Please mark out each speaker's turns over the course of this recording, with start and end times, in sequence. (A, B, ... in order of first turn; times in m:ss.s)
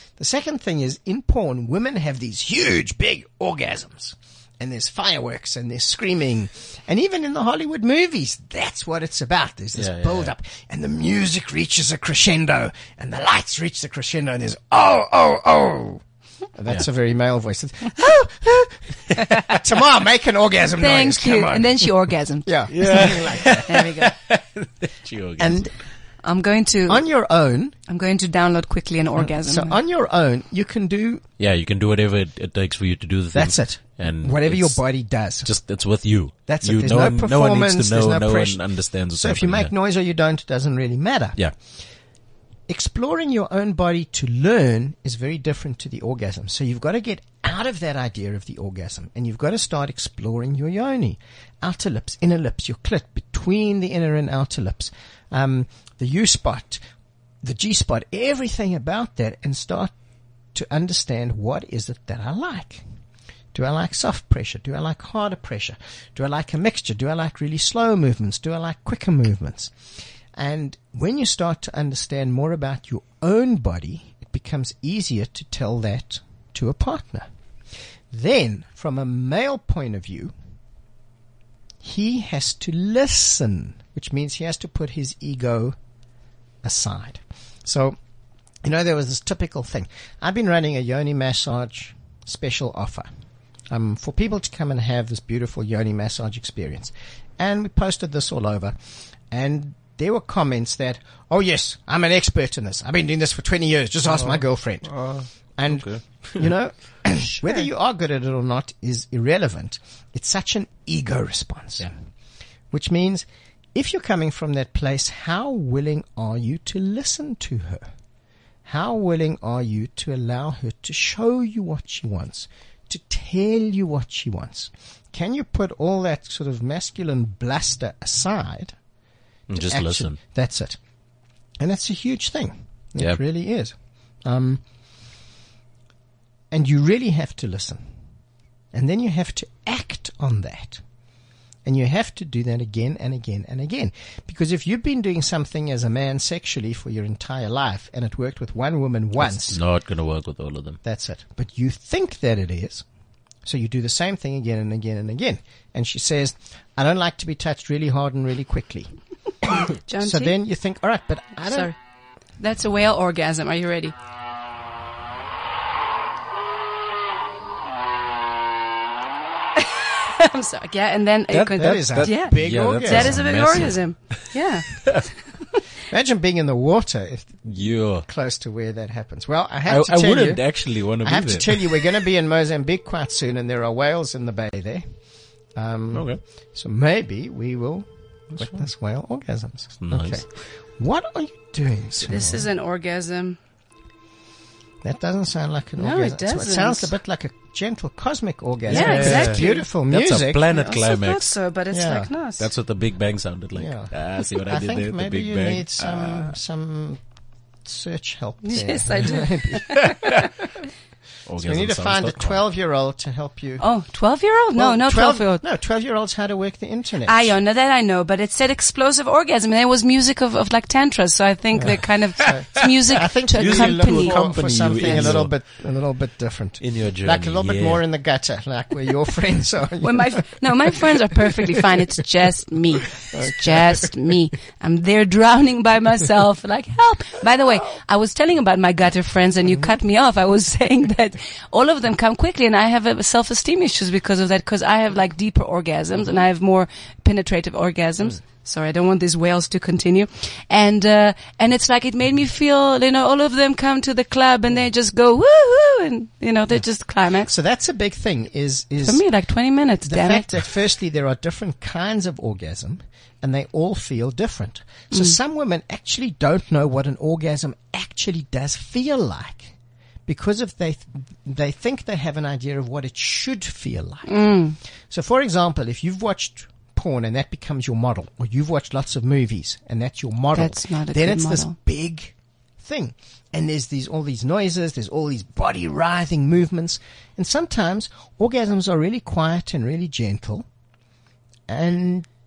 0:00.2-0:16.0 A
0:09.8-0:10.3 B
0:16.6-0:21.9 A
0:20.8-0:23.1 C
0:22.4-0:24.1 A
0:22.7-0:25.6 B
0:23.6-0:24.1 C
0:25.4-0:25.7 A
0:26.2-0:27.0 C
0:26.9-0:27.7 A
0:27.9-0:29.8 C
0:29.2-0:31.2 A
0:31.4-0:34.8 B
0:33.3-0:35.5 A
0:35.4-0:39.7 B
0:36.5-0:41.4 A
0:42.7-0:56.8 A
0:57.4-0:59.9 A
1:00.5-1:02.8 A
1:03.5-1:09.7 A
1:10.3-1:17.3 A
1:18.1-1:20.3 A
1:21.8-1:25.8 A
1:26.6-1:28.0 A
1:28.6-1:33.1 A
1:33.7-1:38.7 A
1:39.3-1:44.9 A
1:44.1-1:46.4 B
1:45.6-1:51.9 A
1:52.7-1:57.9 A
1:58.6-2:08.7 A
2:09.5-2:10.2 B
2:09.5-2:10.8 A
2:11.6-2:14.6 A
2:16.5-2:17.8 A
2:18.7-2:20.8 A
2:21.6-2:29.6 A
2:29.2-2:30.8 B
2:30.8-2:32.8 A
2:33.4-2:38.9 A
2:39.4-2:41.7 A
2:39.9-2:40.4 C
2:41.4-2:41.8 C
2:42.4-2:43.9 C
2:49.6-2:54.7 C
2:51.3-2:54.2 B
2:51.5-2:53.2 A
2:54.8-2:55.0 B
2:55.9-2:57.4 A
2:57.4-2:58.0 B
2:58.0-3:00.4 A
2:59.7-3:01.8 B
3:01.0-3:04.8 A
3:05.5-3:12.4 A
3:05.9-3:06.2 B
3:09.8-3:10.2 B
3:12.0-3:13.4 C
3:14.8-3:20.4 A
3:15.8-3:16.9 C
3:18.7-3:21.4 B
3:18.7-3:19.7 C
3:20.5-3:22.4 C
3:21.7-3:22.1 A
3:22.4-3:26.3 B
3:23.5-3:27.0 A
3:27.6-3:30.2 A
3:28.4-3:30.1 C
3:29.8-3:30.2 B
3:31.2-3:32.4 B
3:31.4-3:33.6 A
3:33.6-3:35.4 C
3:34.6-3:37.3 A
3:37.0-3:44.2 C
3:41.6-3:50.7 A
3:42.2-3:42.6 B
3:43.3-3:45.3 B
3:44.8-3:45.1 C
3:46.6-3:47.8 B
3:49.8-4:17.3 C
3:53.1-3:53.9 A
4:17.2-4:19.0 A
4:18.8-4:20.3 C
4:19.8-4:29.5 A
4:30.0-4:34.3 A
4:34.0-4:34.6 C
4:34.9-4:50.4 A
4:40.3-4:41.5 C
4:51.5-4:52.1 A